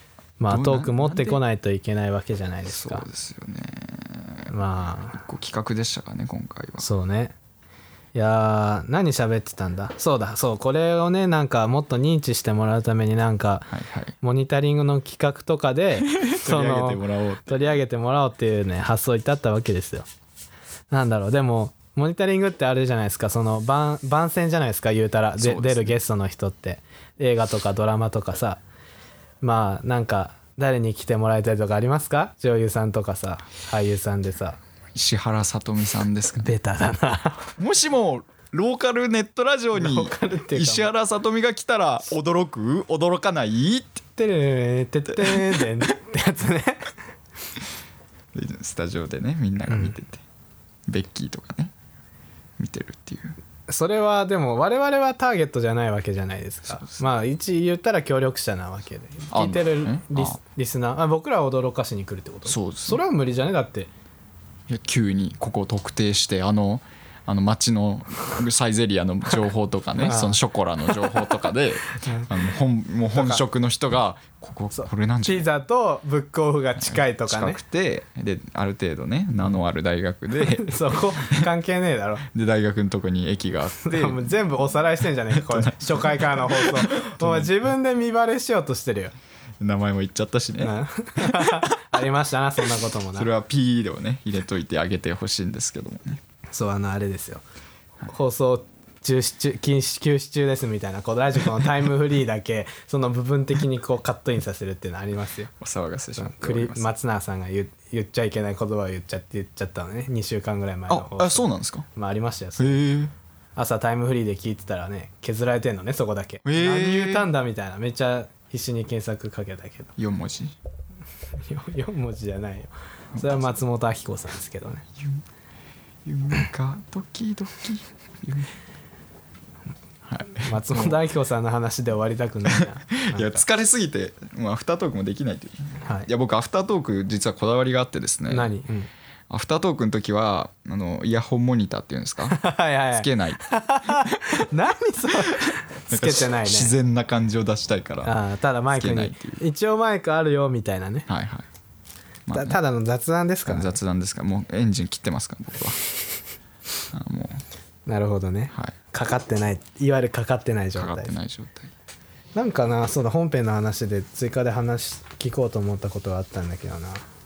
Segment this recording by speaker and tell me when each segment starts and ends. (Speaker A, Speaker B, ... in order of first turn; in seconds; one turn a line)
Speaker A: 0.4-3.0
Speaker B: 0.5-1.4
Speaker B: 2.6-4.5
Speaker A: 4.5-5.2
Speaker B: 5.1-6.9
Speaker A: 6.8-7.3
Speaker A: 8.1-13.7
Speaker B: 13.7-14.1
Speaker A: 14.2-20.1
Speaker B: 16.0-17.8
Speaker A: 20.9-28.6
Speaker B: 25.4-26.0
Speaker A: 29.4-34.6
Speaker B: 34.9-36.5
Speaker A: 36.4-37.5
Speaker B: 37.6-44.0
Speaker A: 39.8-40.9
Speaker A: 44.2-46.9
Speaker B: 45.2-45.8
Speaker B: 48.3-50.2
Speaker A: 49.7-49.9
Speaker B: 50.9-51.7
Speaker B: 52.6-53.4
Speaker A: 53.7-63.9
Speaker B: 56.7-57.0
Speaker B: 59.3-60.4
Speaker B: 62.5-63.0
Speaker B: 64.7-75.5
Speaker A: 70.0-70.4
Speaker A: 71.0-71.3
Speaker A: 72.0-72.3
Speaker A: 73.1-73.4
Speaker A: 74.8-77.6
Speaker B: 76.8-81.5
Speaker A: 80.4-82.2
Speaker B: 82.3-84.4
Speaker A: 83.8-89.1
Speaker B: 85.3-87.5
Speaker B: 89.6-91.8
Speaker A: 90.6-93.3
Speaker B: 93.1-96.2
Speaker A: 96.5-97.4
Speaker A: 98.1-105.5
Speaker B: 105.6-106.9
Speaker A: 106.2-112.8
Speaker B: 110.9-111.9
Speaker B: 112.6-113.1
Speaker A: 113.5-119.9
Speaker B: 116.5-117.3
Speaker B: 120.0-120.5
Speaker A: 121.4-124.8
Speaker B: 126.0-128.5
Speaker B: 130.1-131.0
Speaker A: 130.3-133.4
Speaker B: 132.5-138.5
Speaker A: 138.3-138.9
Speaker B: 139.3-142.4
Speaker A: 142.3-146.7
Speaker B: 142.9-144.4
Speaker B: 145.1-149.4
Speaker A: 148.0-151.1
Speaker B: 151.1-151.5
Speaker B: 152.3-152.6
Speaker A: 152.3-153.8
Speaker B: 153.5-155.8
Speaker B: 156.9-157.4
Speaker A: 157.9-161.1
Speaker B: 160.8-161.7
Speaker A: 162.3-167.0